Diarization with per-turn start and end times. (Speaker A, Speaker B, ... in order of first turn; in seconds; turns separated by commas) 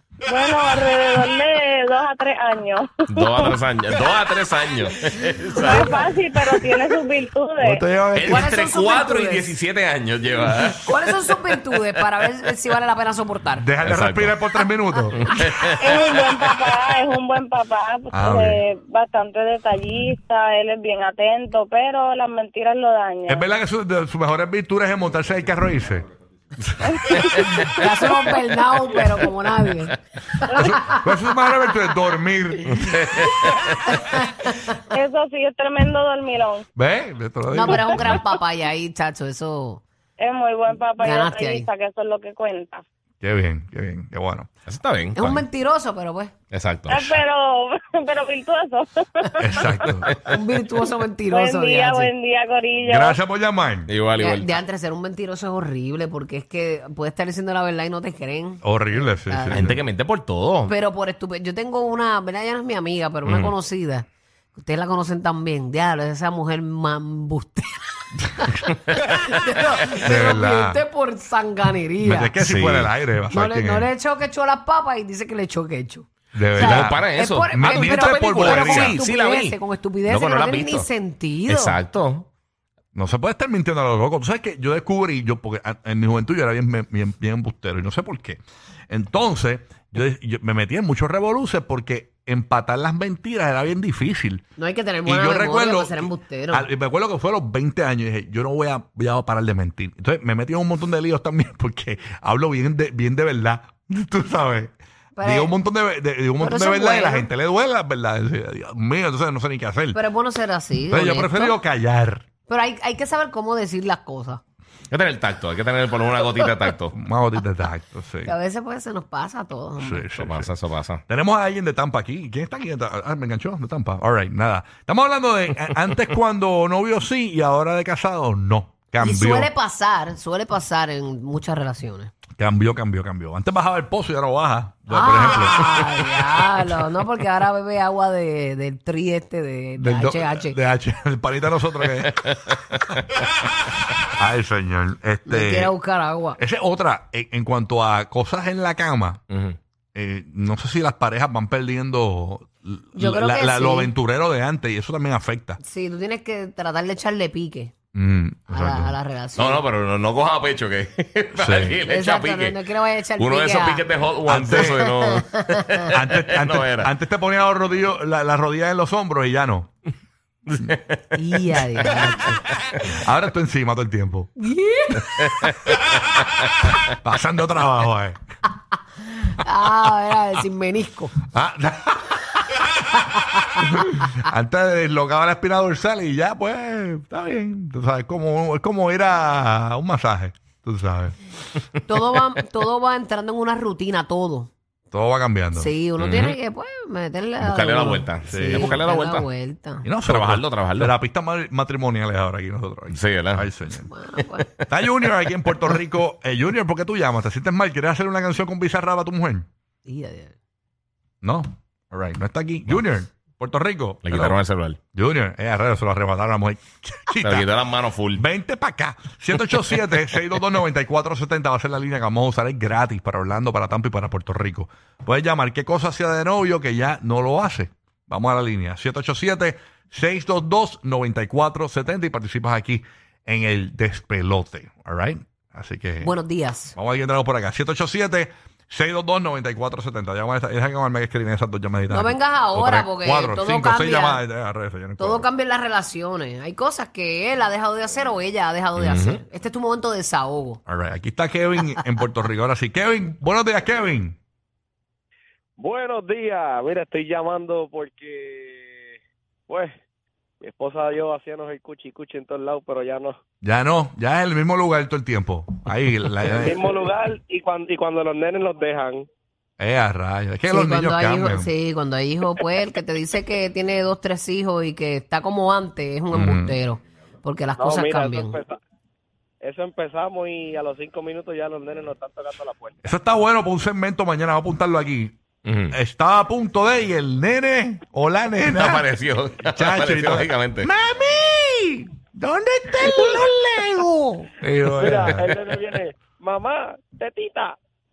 Speaker A: 0.3-3.5, Speaker B: 3.1-6.1, Speaker C: 5.6-5.9, Speaker A: 5.6-7.8, Speaker D: 7.6-8.5, Speaker B: 8.2-12.1, Speaker C: 8.3-9.6, Speaker C: 10.8-13.7, Speaker D: 13.6-15.3, Speaker B: 13.8-14.3, Speaker B: 15.2-16.0, Speaker A: 15.8-23.5, Speaker D: 18.1-18.6, Speaker D: 23.3-26.1, Speaker A: 27.0-27.5, Speaker B: 27.2-27.8, Speaker C: 27.6-30.0, Speaker A: 30.5-30.8, Speaker D: 30.6-33.3, Speaker B: 32.8-33.8, Speaker A: 34.9-36.7, Speaker D: 36.8-38.2, Speaker C: 37.5-39.8, Speaker A: 37.7-38.0, Speaker A: 40.2-42.8, Speaker C: 41.0-41.7, Speaker D: 43.2-44.5, Speaker B: 44.7-45.5, Speaker C: 45.1-46.3, Speaker B: 46.5-47.2, Speaker A: 46.9-50.1, Speaker D: 49.4-50.1, Speaker C: 50.2-52.1, Speaker A: 51.3-53.2, Speaker D: 52.8-53.9, Speaker B: 53.9-54.6, Speaker C: 54.2-59.7, Speaker D: 58.6-59.8, Speaker B: 59.5-60.7, Speaker C: 60.7-72.4, Speaker B: 63.2-63.5, Speaker D: 69.9-70.8, Speaker D: 72.0-73.9, Speaker B: 72.4-72.9, Speaker C: 73.3-81.8, Speaker D: 76.3-79.0, Speaker B: 76.5-80.9, Speaker B: 81.5-82.3, Speaker D: 83.0-94.4, Speaker C: 94.6-96.7, Speaker D: 95.1-110.0, Speaker C: 105.2-105.6, Speaker C: 106.4-107.3, Speaker C: 109.9-111.6, Speaker D: 110.9-112.2, Speaker C: 112.5-114.4, Speaker B: 114.9-116.9, Speaker D: 116.9-118.3, Speaker C: 118.2-120.1, Speaker D: 119.8-120.5, Speaker B: 120.2-121.0, Speaker D: 121.1-129.5, Speaker C: 129.0-132.1, Speaker D: 132.4-135.9, Speaker C: 134.9-140.6, Speaker D: 139.8-142.9, Speaker D: 144.2-145.7, Speaker C: 145.3-146.4, Speaker D: 146.4-149.2, Speaker B: 149.3-149.6, Speaker D: 149.9-155.6, Speaker C: 153.0-153.9, Speaker C: 155.6-157.7, Speaker D: 157.9-158.9, Speaker C: 158.5-159.7, Speaker B: 159.4-166.9, Speaker D: 161.3-161.8, Speaker C: 161.8-163.9, Speaker D: 164.3-164.8, Speaker D: 165.9-169.7, Speaker B: 170.5-172.8, Speaker C: 171.2-172.4, Speaker D: 172.8-174.3, Speaker C: 174.4-175.5, Speaker B: 175.2-175.8, Speaker D: 176.9-178.2, Speaker C: 179.3-181.2, Speaker D: 181.3-182.4, Speaker D: 183.6-191.2, Speaker C: 191.8-194.5, Speaker D: 194.9-195.7, Speaker C: 195.5-199.9, Speaker B: 196.0-196.4, Speaker B: 197.4-199.3, Speaker D: 198.2-198.8, Speaker D: 199.8-203.9, Speaker B: 200.1-200.9, Speaker B: 202.9-203.5, Speaker C: 203.8-204.5, Speaker B: 204.2-205.1, Speaker D: 204.7-209.5, Speaker C: 209.8-210.3, Speaker D: 211.2-214.4, Speaker B: 214.0-214.8, Speaker D: 214.9-217.5, Speaker B: 217.2-218.2, Speaker D: 218.1-236.1, Speaker B: 219.5-219.9, Speaker C: 236.0-236.8, Speaker D: 236.8-245.2, Speaker C: 241.9-244.2, Speaker C: 245.0-250.6, Speaker B: 248.8-249.2, Speaker D: 250.7-254.2, Speaker E: 255.6-258.9, Speaker E: 259.5-259.8, Speaker E: 260.4-263.2, Speaker D: 263.4-266.8, Speaker E: 266.3-269.1, Speaker D: 269.6-271.5, Speaker C: 270.5-278.4, Speaker D: 276.1-276.6, Speaker E: 277.6-278.6, Speaker E: 279.4-282.8, Speaker D: 282.8-285.2, Speaker B: 285.4-285.8, Speaker D: 285.7-288.9, Speaker B: 288.5-290.7, Speaker D: 289.5-295.3, Speaker E: 294.8-297.6